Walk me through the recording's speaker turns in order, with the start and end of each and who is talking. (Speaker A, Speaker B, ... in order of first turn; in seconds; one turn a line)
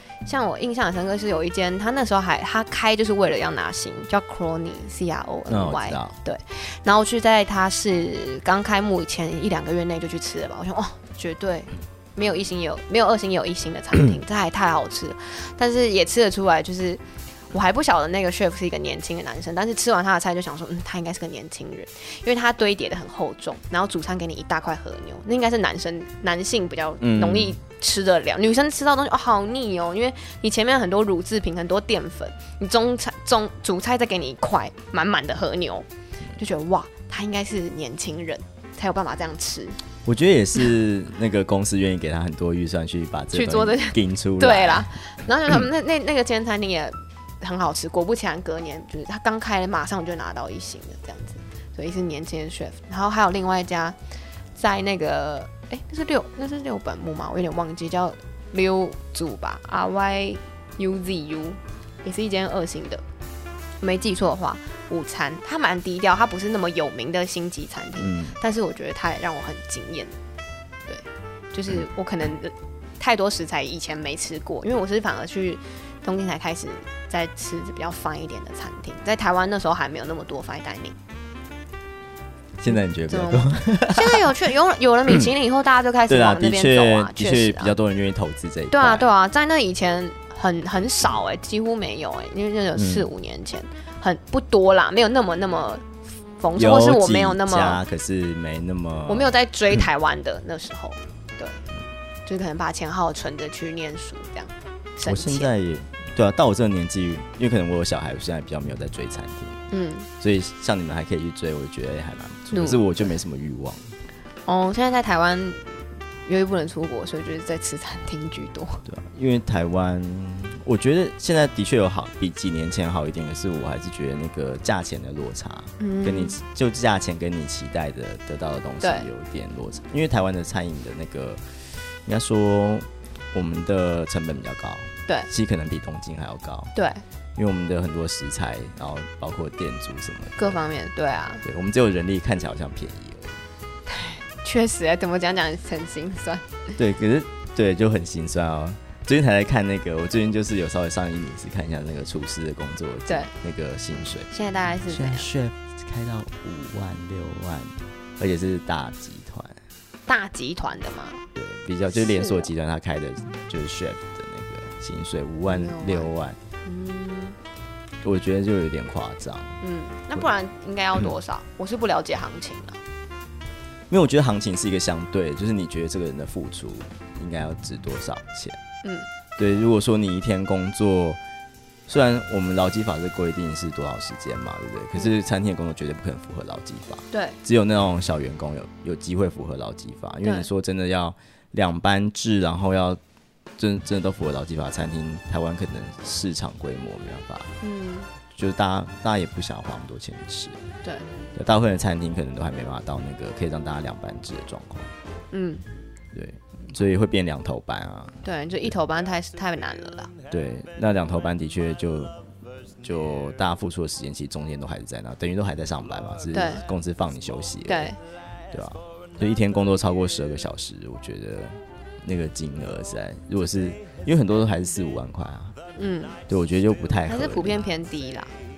Speaker A: 0.2-39.8
Speaker B: 5.5-6.2
Speaker B: 27.0-27.6
Speaker B: 40.0-44.9
Speaker A: 43.3-54.0
Speaker A: 54.5-63.0
Speaker A: 63.8-70.2
Speaker B: 68.0-68.4
Speaker A: 70.9-81.0
Speaker B: 82.6-84.3
Speaker A: 82.7-87.7
Speaker B: 86.1-89.1
Speaker A: 88.7-97.8
Speaker B: 92.8-93.1
Speaker B: 96.5-99.3
Speaker A: 99.1-101.6
Speaker A: 102.3-105.5
Speaker B: 105.0-109.6
Speaker A: 109.7-110.1
Speaker B: 110.2-113.9
Speaker A: 112.5-113.1
Speaker A: 114.5-118.8
Speaker B: 118.9-131.4
Speaker A: 125.8-126.4
Speaker A: 128.8-129.1
Speaker B: 132.1-136.7
Speaker A: 136.8-137.0
Speaker B: 137.4-140.6
Speaker A: 140.4-141.4
Speaker B: 141.4-143.4
Speaker A: 143.9-146.7
Speaker B: 146.8-154.3
Speaker A: 154.3-155.3
Speaker B: 154.9-159.6
Speaker A: 160.1-161.2
Speaker B: 161.3-166.4
Speaker A: 162.0-162.5
Speaker A: 165.5-166.1
Speaker A: 166.6-167.4
Speaker B: 168.0-169.6
Speaker A: 169.6-172.8
Speaker B: 173.9-178.6
Speaker A: 178.8-179.1
Speaker B: 179.4-181.2
Speaker B: 181.9-193.0
Speaker A: 187.1-187.4
Speaker A: 190.2-190.5
Speaker B: 193.6-197.5
Speaker A: 197.6-198.1
Speaker B: 198.3-200.6
Speaker A: 200.8-201.1
Speaker B: 201.3-204.9
Speaker A: 205.3-205.6
Speaker B: 206.1-208.2
Speaker A: 208.2-210.1
Speaker B: 210.3-212.1
Speaker B: 212.8-217.9
Speaker A: 216.3-216.6
Speaker A: 217.7-218.0
Speaker B: 218.5-225.6
Speaker A: 225.8-226.2
Speaker B: 226.3-227.7
Speaker A: 227.1-228.3